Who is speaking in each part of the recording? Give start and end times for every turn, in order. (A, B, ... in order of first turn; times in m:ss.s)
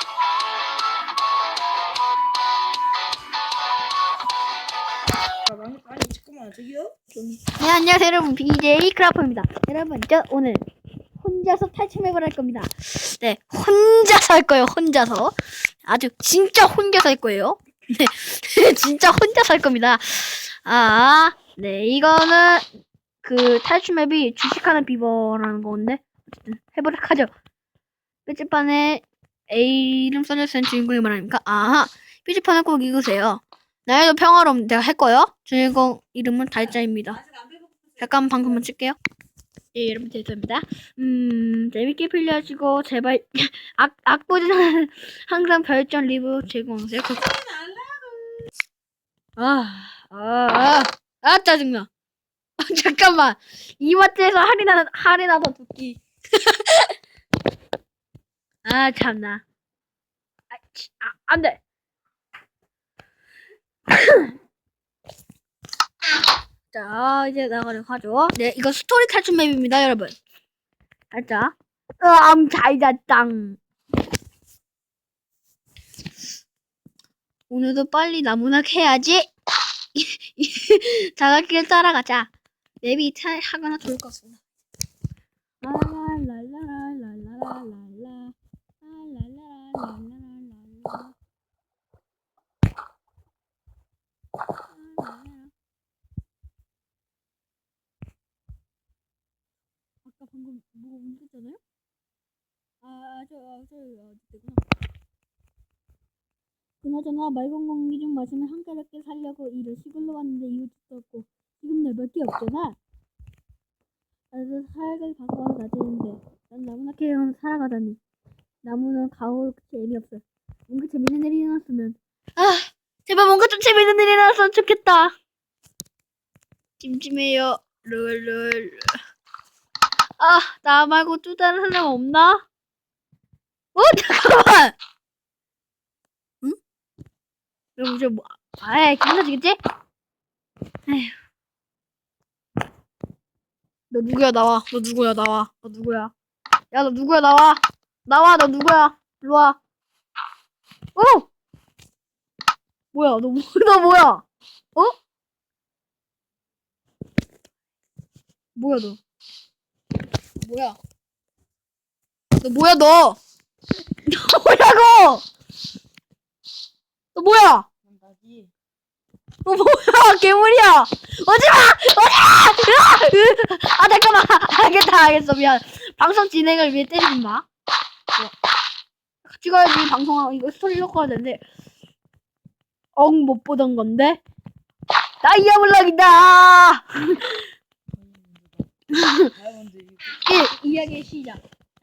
0:05.4-0:07.0 A
0:07.1-0:10.6 B
0:11.2-0:22.6 B
0:23.2-0:27.3 B
0:28.2-0:37.2 B
0:38.0-0:39.0 B
0:39.7-0:48.2 B
0:49.4-0:51.9 B
0:52.6-0:56.9 B
0:58.6-0:59.4 B
1:00.5-1:01.6 B
1:03.9-1:04.3 B
1:06.7-1:10.2 B
1:11.1-1:13.6 B
1:17.5-1:19.3 B
1:19.9-1:22.3 B
1:22.8-1:24.4 B
1:25.6-1:31.1 B
1:34.7-1:35.5 B
1:40.0-1:41.6 B
1:42.8-1:44.6 B
1:46.8-1:52.8 B
1:54.3-1:58.0 B
1:58.6-2:05.1 B
2:06.8-2:09.0 B
2:10.2-2:12.4 B
2:13.7-2:14.8 B
2:17.8-2:19.6 B
2:20.9-2:21.1 B
2:23.9-2:26.1 B
2:26.7-2:29.6 B
2:30.9-2:31.3 B
2:32.9-2:34.9 B
2:38.5-2:39.0 B
2:40.4-2:40.8 B
2:42.4-2:43.2 B
2:44.0-2:45.2 B
2:47.1-2:47.7 B
2:47.8-2:48.5 A
2:49.4-2:57.4 B
2:59.2-3:01.4 B
3:03.0-3:04.2 B
3:05.2-3:07.5 B
3:07.9-3:08.7 A
3:08.9-3:09.3 B
3:09.3-3:10.5 A
3:10.2-3:11.4 B